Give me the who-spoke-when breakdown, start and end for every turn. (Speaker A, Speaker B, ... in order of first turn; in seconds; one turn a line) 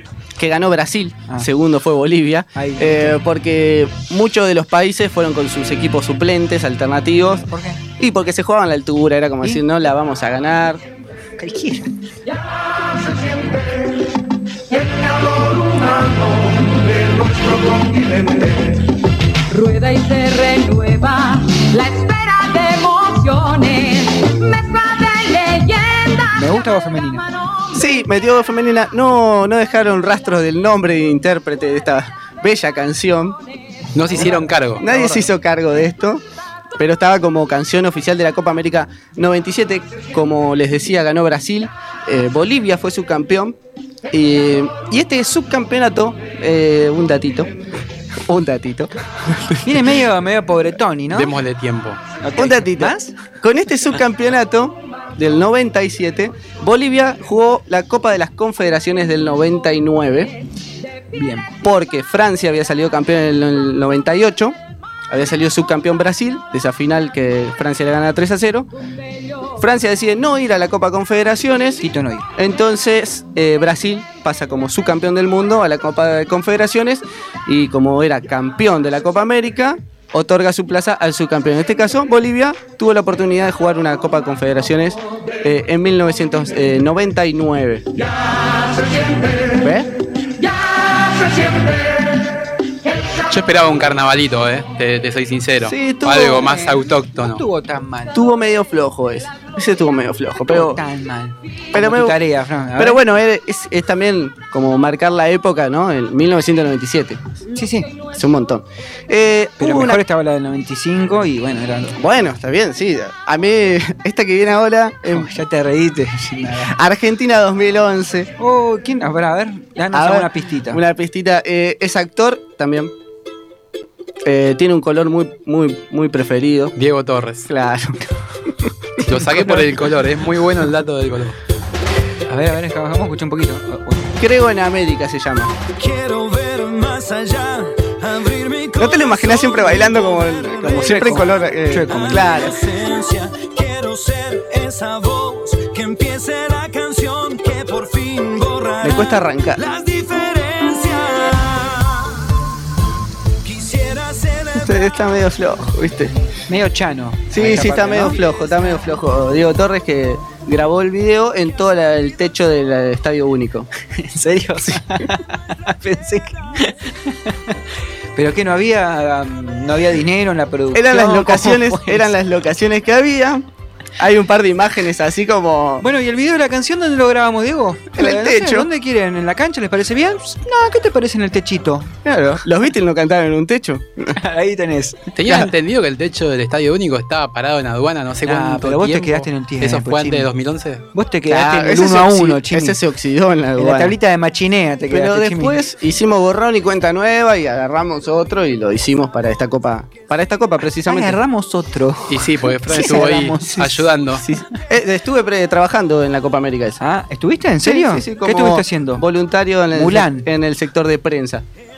Speaker A: 0.4-7.5
Speaker B: 2.5-3.2
Speaker B: 7.5-7.8
Speaker A: 8.0-10.8
Speaker B: 11.4-11.9
Speaker C: 17.1-17.4
Speaker C: 17.9-18.3
Speaker D: 19.5-26.6
Speaker B: 26.3-27.2
Speaker D: 27.4-27.6
Speaker A: 27.7-33.4
Speaker E: 34.0-34.9
Speaker A: 34.8-36.2
Speaker A: 36.8-43.6
Speaker A: 44.1-47.5
Speaker A: 48.3-49.9
Speaker B: 49.6-51.3
Speaker E: 51.1-52.0
Speaker B: 52.2-53.1
Speaker A: 52.4-60.3
Speaker B: 61.1-61.5
Speaker A: 61.6-64.6
Speaker A: 65.1-68.7
Speaker A: 69.6-71.8
Speaker B: 71.8-72.3
Speaker A: 72.4-87.9
Speaker D: 88.5-89.5
Speaker A: 89.6-89.9
Speaker D: 90.4-92.1
Speaker E: 93.3-97.4
Speaker A: 95.6-96.5
Speaker B: 96.3-98.2
Speaker A: 98.1-100.8
Speaker B: 100.5-103.0
Speaker A: 101.7-102.2
Speaker A: 102.8-107.2
Speaker B: 107.5-107.9
Speaker A: 108.1-110.0
Speaker B: 109.6-112.0
Speaker A: 112.0-115.3
Speaker B: 115.1-116.8
Speaker A: 116.7-118.3
Speaker B: 118.4-120.8
Speaker A: 119.9-122.9
Speaker A: 124.2-126.7
Speaker E: 126.8-127.5
Speaker A: 127.5-128.0
Speaker E: 129.1-131.4
Speaker B: 132.3-134.1
Speaker A: 134.2-135.6
Speaker C: 135.8-141.2
Speaker A: 138.8-142.6
Speaker B: 140.8-142.4
Speaker C: 141.9-152.2
Speaker A: 148.8-149.6
Speaker C: 153.4-154.7
Speaker A: 154.6-156.2
Speaker B: 156.5-158.4
Speaker A: 157.3-163.7
Speaker B: 163.9-167.6
Speaker B: 168.2-172.1
Speaker A: 170.7-173.5
Speaker A: 174.0-175.8
Speaker B: 175.8-181.9
Speaker A: 178.0-178.7
Speaker A: 182.1-184.1
Speaker B: 184.2-185.1
Speaker E: 185.2-190.8
Speaker B: 188.2-190.3
Speaker B: 190.9-192.8
Speaker A: 191.3-193.9
Speaker B: 193.6-195.6
Speaker A: 194.9-201.2
Speaker B: 200.9-203.9
Speaker E: 202.1-204.2
Speaker A: 204.2-206.8
Speaker B: 206.8-209.0
Speaker A: 207.6-211.4
Speaker B: 209.7-210.3